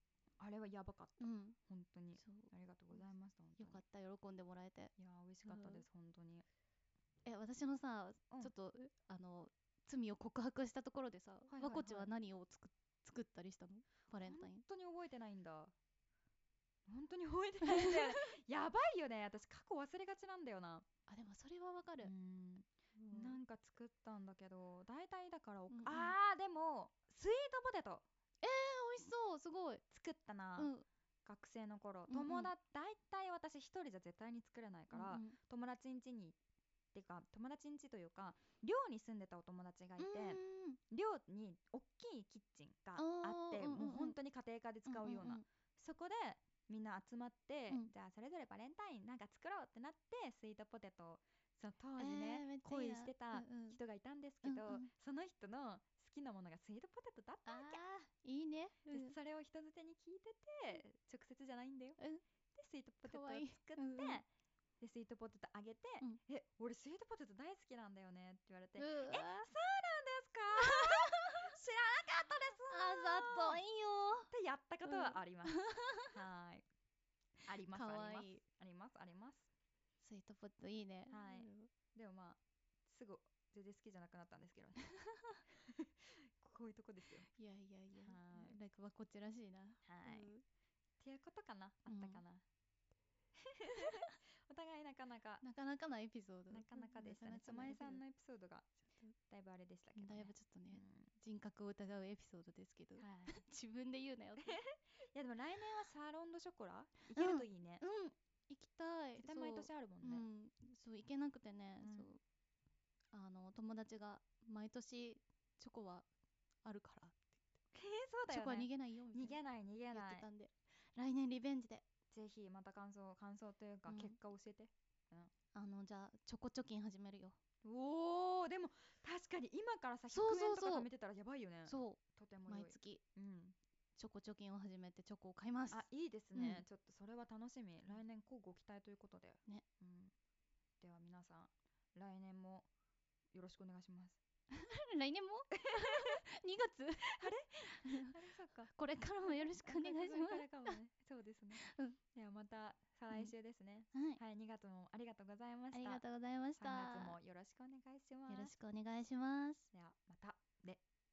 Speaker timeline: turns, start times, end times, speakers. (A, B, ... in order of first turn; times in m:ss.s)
0:00.4-0:03.8 A
0:01.2-0:01.6 B
0:02.2-0:02.5 B
0:03.6-0:04.9 B
0:05.0-0:06.4 A
0:05.4-0:05.8 B
0:07.2-0:14.6 B
0:11.5-0:12.1 A
0:14.2-0:15.7 A
0:16.9-0:20.8 A
0:17.6-0:18.3 B
0:21.1-0:22.1 B
0:22.0-0:28.0 A
0:23.0-0:23.4 B
0:25.7-0:26.2 B
0:28.4-0:29.8 B
0:29.9-0:30.7 A
0:30.6-0:30.8 B
0:31.2-0:36.4 A
0:32.1-0:32.5 B
0:34.9-0:35.4 B
0:36.9-0:57.8 A
0:40.0-0:40.8 B
0:43.0-0:44.2 B
0:44.8-0:45.4 B
0:52.0-0:53.8 B
0:54.4-0:54.9 B
0:57.4-0:59.1 B
0:58.8-1:02.0 A
1:02.5-1:04.2 A
1:03.0-1:04.2 B
1:04.8-1:13.6 A
1:08.8-1:09.5 B
1:10.5-1:11.5 B
1:12.7-1:14.3 B
1:14.3-1:16.6 A
1:14.8-1:16.1 B
1:17.4-1:19.5 A
1:17.7-1:18.4 B
1:20.0-1:21.7 B
1:21.1-1:24.8 A
1:24.9-1:25.4 B
1:25.5-1:27.3 A
1:27.4-1:30.4 B
1:27.9-1:28.6 A
1:29.8-1:30.3 A
1:31.0-1:32.4 A
1:31.9-1:32.2 B
1:33.4-1:35.4 A
1:33.7-1:34.1 B
1:35.4-1:38.0 B
1:36.5-1:38.7 A
1:39.3-1:41.1 A
1:39.9-1:44.6 B
1:43.0-1:43.4 A
1:44.4-1:47.8 A
1:47.1-1:52.2 B
1:49.2-1:50.2 A
1:51.8-1:52.1 A
1:53.1-1:56.1 B
1:56.6-1:57.3 B
1:57.7-2:00.3 A
1:58.3-1:59.4 B
1:59.9-2:01.8 B
2:02.1-2:05.3 A
2:03.9-2:04.2 B
2:05.5-2:07.4 B
2:07.6-2:13.6 A
2:10.1-2:10.9 B
2:11.7-2:13.0 B
2:14.0-2:16.6 B
2:15.7-2:20.1 A
2:20.8-2:22.7 A
2:23.3-2:24.2 A
2:24.5-2:28.2 B
2:25.6-2:26.2 A
2:27.0-2:28.7 A
2:28.7-2:30.8 B
2:29.2-2:36.0 A
2:31.5-2:32.0 B
2:33.9-2:34.2 B
2:35.7-2:37.1 B
2:36.6-2:38.5 A
2:38.3-2:39.7 B
2:39.7-2:40.8 A